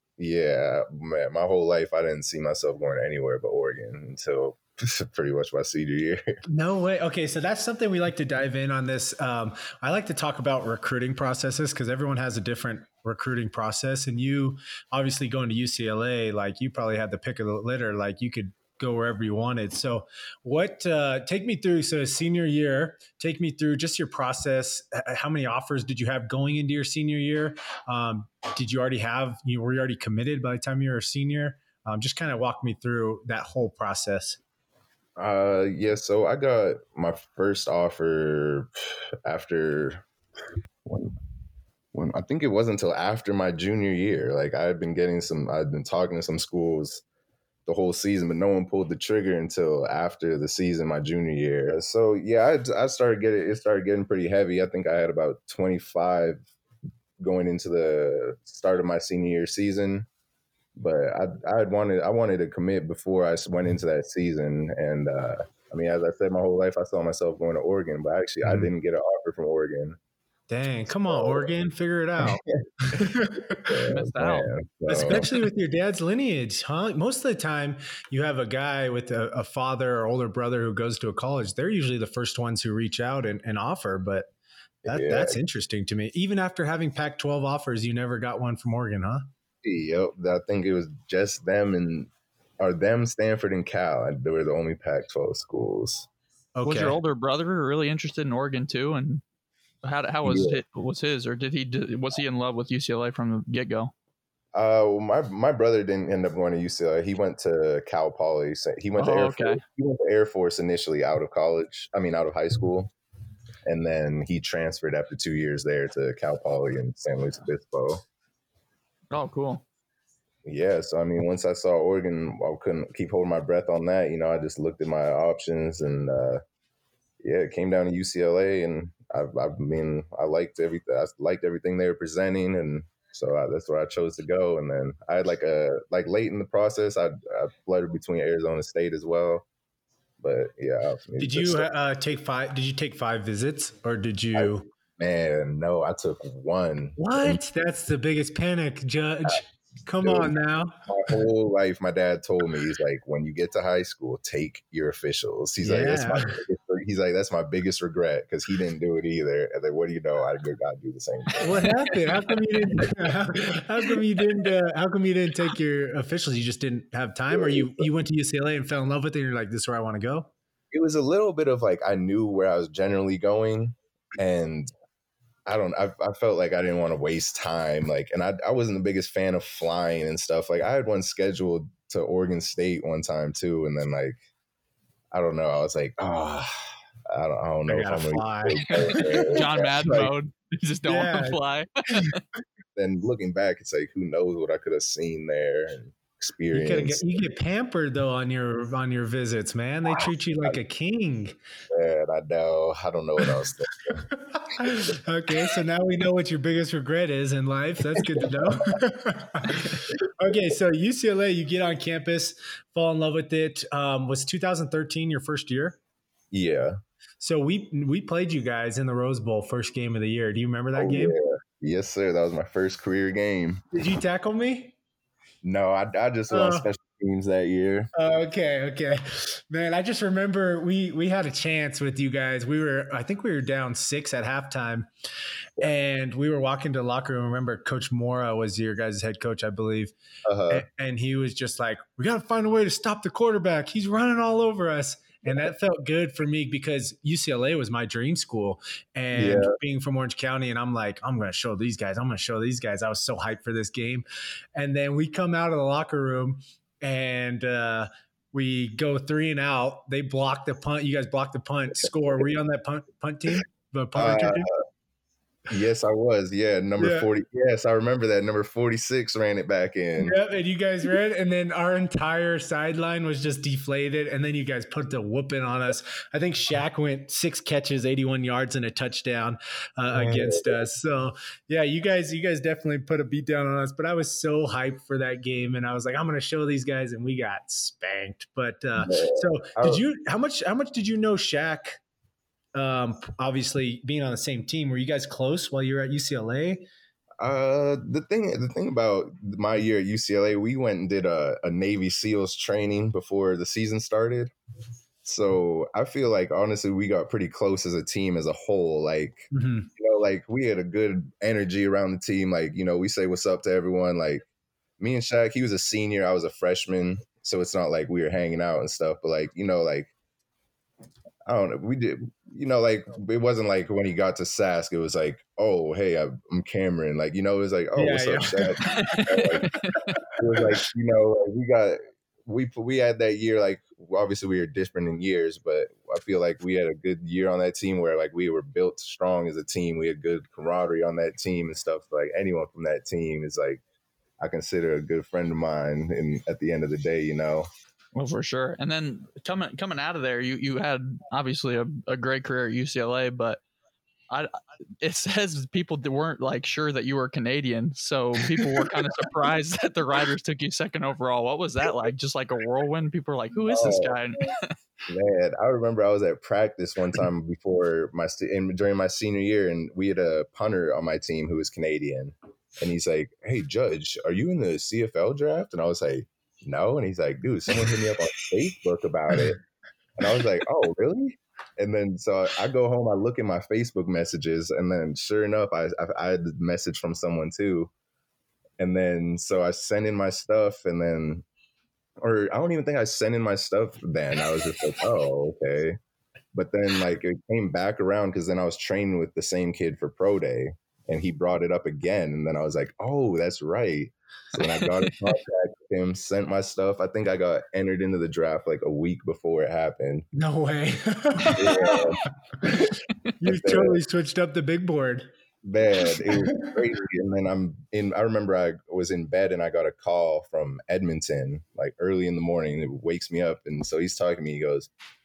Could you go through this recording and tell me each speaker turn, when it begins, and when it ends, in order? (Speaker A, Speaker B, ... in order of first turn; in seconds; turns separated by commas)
Speaker A: 0.2-6.2, Speaker B: 6.5-34.4, Speaker A: 35.2-38.7, Speaker A: 39.2-40.0, Speaker A: 40.9-41.1, Speaker A: 41.9-47.0, Speaker A: 47.7-56.5, Speaker A: 57.2-60.1, Speaker A: 60.8-70.0, Speaker B: 68.4-68.7, Speaker B: 70.5-73.7, Speaker A: 70.9-71.5, Speaker A: 72.5-75.3, Speaker C: 73.9-74.5, Speaker B: 74.9-84.3, Speaker A: 84.8-85.4, Speaker B: 84.9-89.3, Speaker A: 89.6-96.1, Speaker B: 96.6-97.0, Speaker C: 96.7-99.2, Speaker C: 99.8-103.9, Speaker A: 100.2-100.6, Speaker A: 104.5-112.9, Speaker C: 109.0-109.6, Speaker A: 113.7-118.0, Speaker C: 119.1-119.6, Speaker A: 120.5-126.4, Speaker A: 127.2-139.5, Speaker A: 140.2-141.7, Speaker B: 141.2-144.7, Speaker A: 144.3-147.4, Speaker B: 147.0-150.8, Speaker A: 150.0-150.3, Speaker A: 150.9-161.7, Speaker B: 155.6-156.4, Speaker B: 161.4-170.3, Speaker A: 167.3-167.9, Speaker A: 170.7-174.7, Speaker A: 175.5-184.2, Speaker A: 185.1-186.5, Speaker A: 187.1-190.1, Speaker B: 187.7-189.2, Speaker C: 188.7-192.2, Speaker B: 190.9-191.4, Speaker A: 192.8-197.0, Speaker B: 196.5-201.3, Speaker A: 201.7-204.1, Speaker B: 204.1-215.8, Speaker A: 208.0-208.3, Speaker A: 216.3-216.8, Speaker B: 217.2-221.2, Speaker A: 220.8-223.6, Speaker B: 223.7-224.8, Speaker A: 225.4-227.9, Speaker B: 226.3-226.7, Speaker B: 227.9-234.9, Speaker B: 235.6-239.9, Speaker A: 240.3-240.7, Speaker B: 240.5-264.5, Speaker A: 249.2-249.5, Speaker A: 263.9-264.5, Speaker A: 265.5-270.2, Speaker B: 266.8-267.1, Speaker B: 270.0-291.8, Speaker A: 279.9-280.6, Speaker A: 288.8-289.8, Speaker B: 292.6-296.7, Speaker A: 297.2-304.3, Speaker A: 305.0-314.2, Speaker B: 309.3-309.7, Speaker A: 314.8-319.9, Speaker A: 321.3-329.5, Speaker B: 327.8-328.8, Speaker C: 328.7-330.0, Speaker A: 330.2-343.6, Speaker A: 344.2-347.5, Speaker C: 347.9-353.4, Speaker C: 354.8-364.6, Speaker A: 363.5-364.0, Speaker A: 364.9-379.4, Speaker A: 380.0-387.7, Speaker A: 388.6-391.3, Speaker A: 392.0-395.8, Speaker A: 396.3-410.1, Speaker C: 404.4-404.8, Speaker B: 410.1-411.9, Speaker A: 411.4-413.8, Speaker B: 413.2-415.1, Speaker A: 415.4-424.7, Speaker B: 415.9-416.6